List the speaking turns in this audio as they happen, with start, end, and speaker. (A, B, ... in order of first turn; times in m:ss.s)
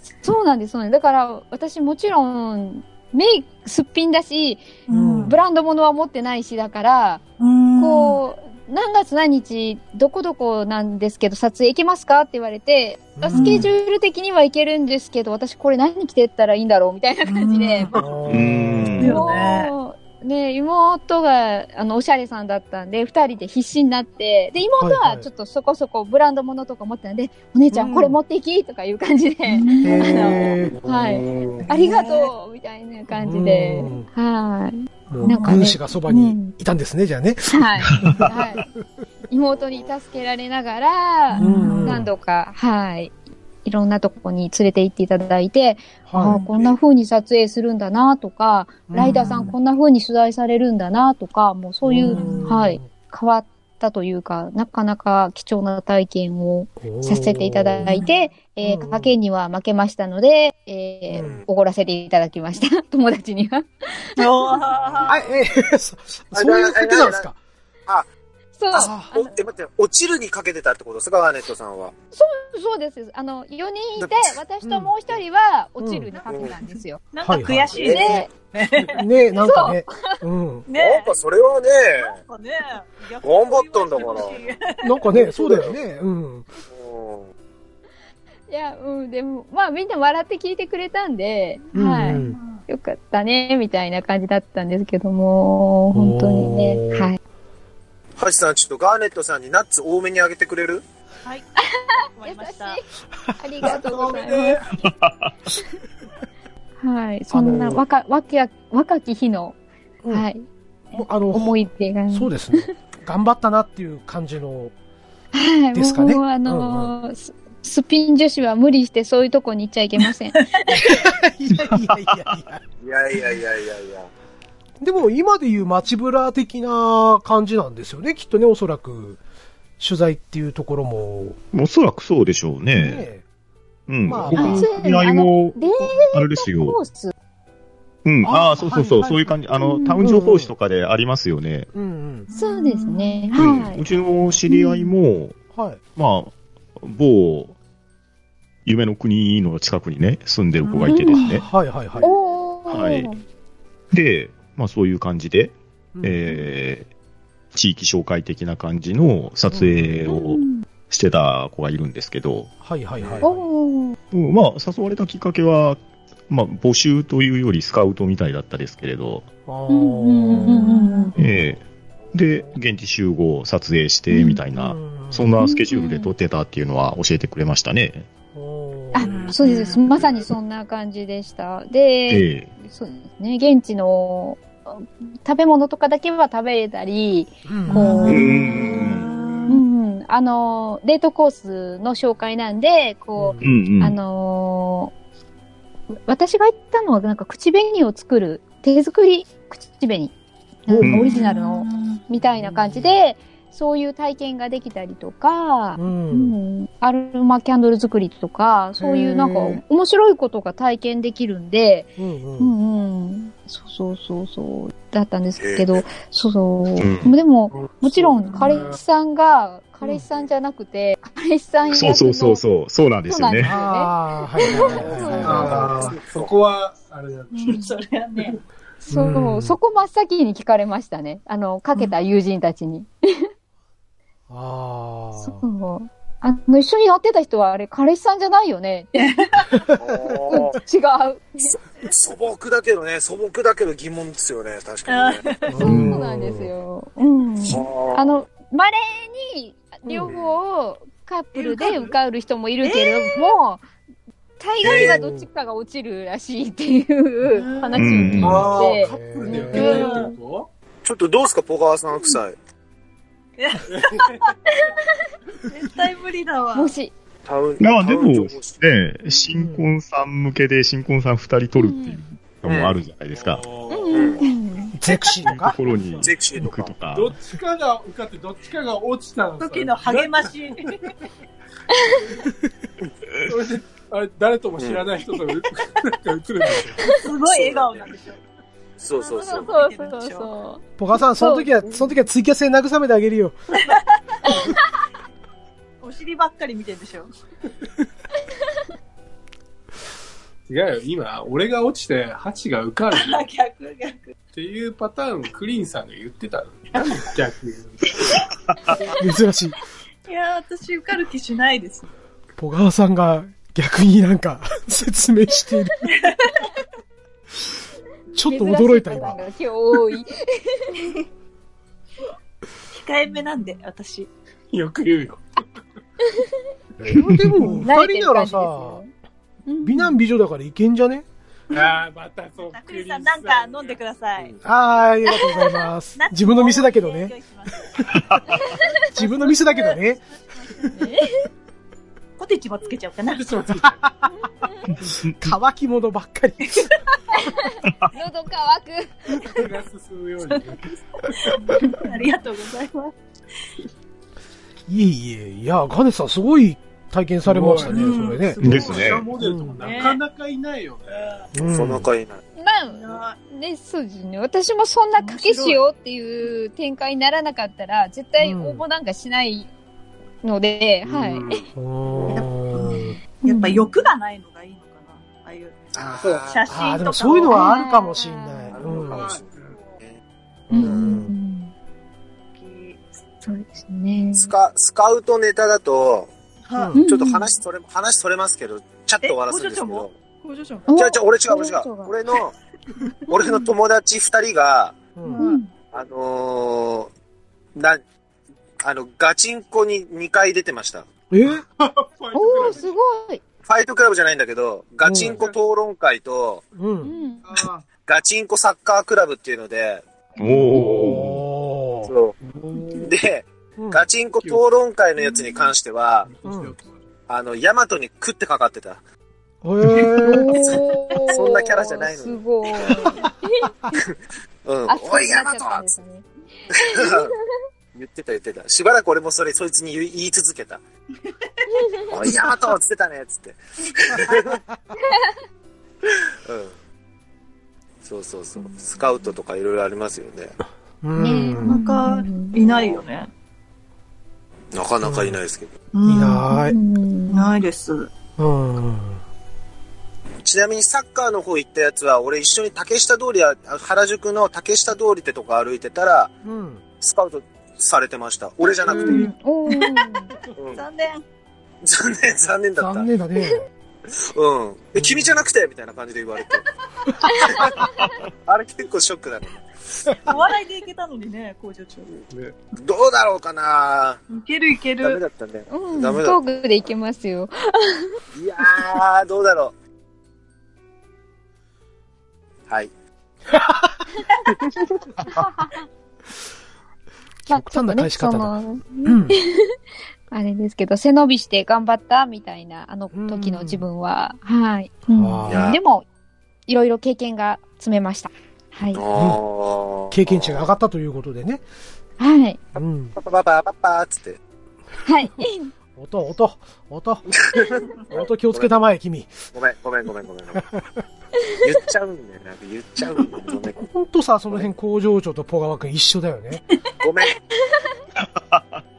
0:00.2-0:04.7 A
0:04.9-0:05.4 B
0:04.9-0:05.4 C
0:05.2-0:07.2 A
0:07.4-0:08.2 B
0:07.8-0:17.9 A
0:13.2-0:13.7 C
0:13.3-0:13.7 B
0:17.2-0:18.0 B
0:17.9-0:19.2 C
0:18.3-0:19.2 D
0:19.0-0:19.7 B
0:19.0-0:36.5 A
0:24.8-0:25.3 C
0:27.7-0:28.2 C
0:29.5-0:30.1 B
0:29.8-0:30.8 C
0:30.7-0:31.6 E
0:33.1-0:34.1 C
0:35.1-0:38.7 C
0:35.3-0:35.5 B
0:37.5-0:38.6 A
0:38.0-0:38.2 D
0:39.3-0:43.1 A
0:39.5-0:39.9 E
0:41.3-0:41.9 B
0:41.4-0:42.1 C
0:43.6-1:04.4 A
0:46.1-0:46.4 C
0:46.5-0:46.8 E
0:48.9-0:49.5 C
0:49.0-0:49.5 B
0:51.8-0:52.9 C
0:52.0-0:52.5 B
0:56.8-0:58.0 C
0:58.6-0:59.1 C
1:01.1-1:01.4 C
1:01.2-1:01.4 E
1:04.2-1:05.2 B
1:05.1-1:07.4 C
1:06.3-1:07.3 E
1:08.6-1:09.4 A
1:08.7-1:11.9 E
1:08.7-1:09.1 C
1:12.1-1:17.0 A
1:14.0-1:14.4 E
1:14.6-1:14.9 C
1:15.8-1:16.1 C
1:16.1-1:19.0 B
1:16.3-1:16.5 E
1:17.2-1:17.8 C
1:17.8-1:18.3 A
1:17.8-1:18.2 E
1:18.9-1:20.6 C
1:19.4-1:20.2 A
1:20.7-1:21.1 B
1:20.7-1:22.2 E
1:22.0-1:24.9 B
1:23.2-1:24.4 E
1:24.8-1:26.5 C
1:25.1-1:25.8 E
1:26.7-1:27.3 E
1:28.5-1:37.2 A
1:31.7-1:32.4 C
1:32.1-1:32.6 B
1:35.9-1:37.1 C
1:38.2-1:40.8 E
1:41.6-1:42.9 A
1:42.2-1:42.8 B
1:43.4-1:44.6 A
1:43.6-1:44.8 F
1:44.8-1:45.3 D
1:46.8-1:49.6 A
1:47.3-1:47.8 C
1:50.1-1:52.7 A
1:50.9-1:54.7 C
1:55.3-2:00.4 A
1:55.7-1:56.9 C
2:00.7-2:02.6 C
2:02.8-2:04.1 E
2:04.8-2:09.2 C
2:09.8-2:11.4 C
2:11.5-2:13.1 D
2:12.8-2:13.2 C
2:13.9-2:16.8 D
2:14.0-2:14.7 C
2:14.3-2:17.1 A
2:18.0-2:21.7 D
2:18.2-2:19.3 C
2:19.5-2:20.0 A
2:20.0-2:20.5 C
2:21.7-2:22.3 C
2:22.3-2:23.2 B
2:22.3-2:23.8 A
2:23.4-2:25.4 D
2:24.5-2:24.9 A
2:25.5-2:25.8 C
2:26.0-2:27.5 D
2:28.6-2:31.4 D
2:30.6-2:31.1 B
2:30.8-2:31.4 A
2:31.2-2:32.1 C
2:32.0-2:33.2 A
2:32.7-2:33.1 D
2:33.9-2:36.9 D
2:35.9-2:36.3 C
2:37.5-2:42.5 D
2:39.5-2:40.0 C
2:40.1-2:40.7 A
2:42.6-2:43.5 C
2:43.2-2:44.0 A
2:44.1-2:49.3 D
2:49.5-2:51.3 C
2:49.7-2:51.2 A
2:50.5-2:51.1 B
2:51.2-2:58.1 D
2:54.1-2:54.4 A
2:54.5-2:55.3 C
2:55.4-2:56.1 A
2:58.3-2:59.1 C
2:58.9-3:09.0 A
2:59.0-2:59.4 F
2:59.1-2:59.8 B
3:02.1-3:02.5 D
3:07.5-3:08.2 C
3:07.7-3:09.6 B
3:08.1-3:09.1 D
3:09.5-3:14.9 A
3:13.2-3:13.6 C
3:13.4-3:14.0 D
3:16.1-3:20.1 A
3:20.7-3:42.4 A
3:20.7-3:21.1 C
3:20.8-3:21.1 D
3:21.1-3:22.0 B
3:22.4-3:23.0 C
3:25.8-3:26.3 C
3:28.8-3:29.6 C
3:32.0-3:32.5 C
3:35.4-3:35.9 E
3:36.8-3:37.1 D
3:37.5-3:38.8 F
3:41.7-3:43.5 D
3:43.1-3:45.7 A
3:43.4-3:45.9 C
3:44.7-3:46.3 E
3:45.2-3:47.7 F
3:47.3-3:48.4 B
3:48.9-3:53.3 A
3:48.9-3:49.6 C
3:54.3-3:55.4 C
3:55.2-3:59.0 A
3:59.0-3:59.5 B
3:59.6-4:00.2 C
3:59.8-4:00.6 E
4:00.3-4:01.5 A
4:01.5-4:05.3 E
4:04.9-4:05.6 B
4:05.5-4:06.5 C
4:05.6-4:13.6 A
4:05.6-4:06.0 D
4:07.4-4:08.1 E
4:09.8-4:10.1 C
4:11.3-4:11.9 B
4:12.6-4:13.4 B
4:14.4-4:20.1 A
4:14.6-4:15.0 E
4:14.7-4:15.3 C
4:17.3-4:17.9 B
4:17.8-4:18.5 D
4:18.2-4:19.8 C
4:18.2-4:20.5 F
4:19.4-4:20.1 B
4:20.8-4:22.4 E
4:23.4-4:24.1 B
4:23.7-4:24.3 F
4:24.5-4:25.1 A
4:25.5-4:26.8 B
4:26.5-4:26.9 A
4:27.2-4:28.6 E
4:27.6-4:33.4 D
4:29.3-4:29.7 C
4:31.6-4:32.0 A
4:32.4-4:32.8 E
4:33.1-4:34.3 F
4:33.7-4:34.8 A
4:33.9-4:34.2 E
4:34.7-4:35.6 C
4:35.4-4:37.1 D
4:35.7-4:36.0 F
4:36.0-4:36.7 E
4:36.9-4:40.8 F
4:39.4-4:40.9 B
4:41.7-4:42.0 A
4:43.2-4:47.0 F
4:44.6-4:44.9 E
4:46.9-4:48.2 B
4:47.3-4:47.9 E
4:48.8-4:49.5 E
4:48.9-4:50.3 B
4:49.1-4:51.9 A
4:50.8-4:53.4 C
4:53.7-4:54.4 B
4:54.2-4:54.6 A
4:55.8-4:57.1 B
5:00.5-5:03.3 F
5:02.9-5:04.1 B
5:04.3-5:08.2 F
5:06.7-5:07.1 B
5:09.0-5:09.6 C
5:10.1-5:11.9 B
5:12.4-5:15.9 C
5:15.9-5:16.5 B
5:18.1-5:19.2 C
5:18.2-5:21.0 A
5:22.7-5:24.1 B
5:24.5-5:25.4 F
5:26.0-5:26.4 A
5:26.8-5:28.8 C
5:27.6-5:28.9 A
5:29.4-5:30.0 A
5:29.6-5:31.0 C
5:31.5-5:33.8 F
5:32.4-5:34.3 B
5:34.4-5:37.1 C
5:36.0-5:38.0 B
5:37.8-5:38.2 C
5:37.9-5:38.3 D
5:38.3-5:38.8 A
5:38.6-5:41.0 B
5:38.9-5:40.0 C
5:40.7-5:41.3 A
5:42.2-5:43.2 B
5:43.0-5:43.8 F
5:43.5-5:44.1 C
5:44.2-5:44.7 A
5:45.1-5:46.7 C
5:47.1-5:49.4 A
5:49.2-5:51.4 F
5:51.3-5:52.9 B
5:54.7-5:58.5 C
5:57.2-6:01.2 F
5:57.7-5:58.9 B
5:58.4-5:59.1 D
5:59.1-5:59.6 C
5:59.6-6:00.0 B
6:01.3-6:01.9 C
6:01.4-6:02.2 E
6:02.4-6:09.5 A
6:02.7-6:03.2 B
6:05.0-6:05.6 B
6:08.2-6:08.6 C
6:10.2-6:11.4 A
6:10.9-6:11.2 F
6:11.5-6:13.0 C
6:11.9-6:12.2 E
6:12.1-6:17.4 B
6:13.2-6:13.8 A
6:15.7-6:16.5 E
6:16.5-6:19.0 C
6:17.3-6:18.6 A
6:18.5-6:20.0 E
6:18.6-6:19.6 F
6:20.5-6:21.1 C
6:20.5-6:21.5 A
6:22.4-6:22.8 B
6:23.2-6:24.3 A
6:24.1-6:26.1 E
6:26.4-6:26.7 B
6:26.6-6:26.8 C
6:26.7-6:27.3 A
6:26.8-6:29.9 E
6:29.0-6:30.7 B
6:30.7-6:31.9 A
6:30.8-6:32.3 E
6:33.1-6:34.8 E
6:33.1-6:33.4 A
6:35.0-6:35.2 C
6:35.0-6:35.5 A
6:35.7-6:36.9 E
6:37.5-6:37.8 E
6:38.6-6:40.9 E
6:41.1-6:41.4 C
6:41.2-6:42.8 F
6:42.1-6:43.2 A
6:43.4-6:46.4 E
6:44.8-6:45.2 C
6:44.9-6:45.4 F
6:46.5-6:46.9 C
6:46.8-6:47.3 A
6:47.2-6:47.6 F
6:47.8-6:49.8 E
6:50.2-6:51.2 D
6:50.4-6:51.9 C
6:51.8-6:52.1 E
6:52.3-6:52.9 F
6:52.8-6:56.1 E
6:53.6-6:53.8 C
6:54.2-6:54.4 F
6:56.0-6:56.7 F
6:56.2-6:56.5 C
6:57.1-6:58.8 E
6:59.4-7:00.3 C
7:00.0-7:03.8 A
7:01.1-7:02.9 E
7:04.4-7:05.7 E
7:04.7-7:07.2 A
7:06.6-7:07.1 E
7:07.7-7:10.6 E
7:11.5-7:12.0 A
7:11.9-7:14.4 E
7:16.2-7:16.5 E
7:17.8-7:20.3 E
7:20.8-7:21.6 C
7:21.0-7:22.3 A
7:21.4-7:23.1 B
7:22.4-7:22.8 E
7:24.5-7:25.5 E
7:24.8-7:25.2 C
7:25.7-7:26.4 B
7:25.8-7:26.6 C
7:26.5-7:27.3 A
7:27.1-7:27.9 B
7:28.2-7:29.0 C
7:30.2-7:36.1 E
7:36.2-7:36.6 C
7:36.8-7:39.1 E
7:38.7-7:39.0 C
7:38.7-7:40.1 A
7:40.4-7:40.6 E
7:40.5-7:41.0 B
7:41.6-7:42.9 E
7:42.6-7:43.4 C
7:43.9-7:46.5 E
7:44.8-7:45.2 C
7:46.9-7:47.7 C
7:47.0-7:47.9 A
7:47.2-7:47.7 E
7:48.2-7:49.4 E
7:50.0-7:52.0 B
7:52.1-7:52.4 F
7:52.6-7:54.0 E
7:54.1-7:55.0 B
7:54.8-7:56.2 E
7:55.5-7:57.9 A
7:58.1-7:59.5 E
8:05.1-8:05.5 A
8:07.3-8:09.2 C
8:07.3-8:09.5 A
8:10.1-8:15.8 A
8:12.9-8:13.7 C
8:14.9-8:15.5 C
8:15.3-8:15.6 E
8:16.5-8:18.8 A
8:18.7-8:20.5 E
8:18.9-8:19.2 C
8:19.9-8:21.4 C
8:22.0-8:22.4 A
8:22.5-8:23.0 C
8:23.0-8:24.2 E
8:24.8-8:25.5 A
8:25.8-8:27.1 C
8:27.1-8:28.6 E
8:27.9-8:29.1 C
8:29.3-8:30.4 E
8:30.4-8:30.8 C
8:31.4-8:33.6 E
8:33.6-8:36.5 C
8:36.8-8:37.2 E
8:38.0-8:38.6 D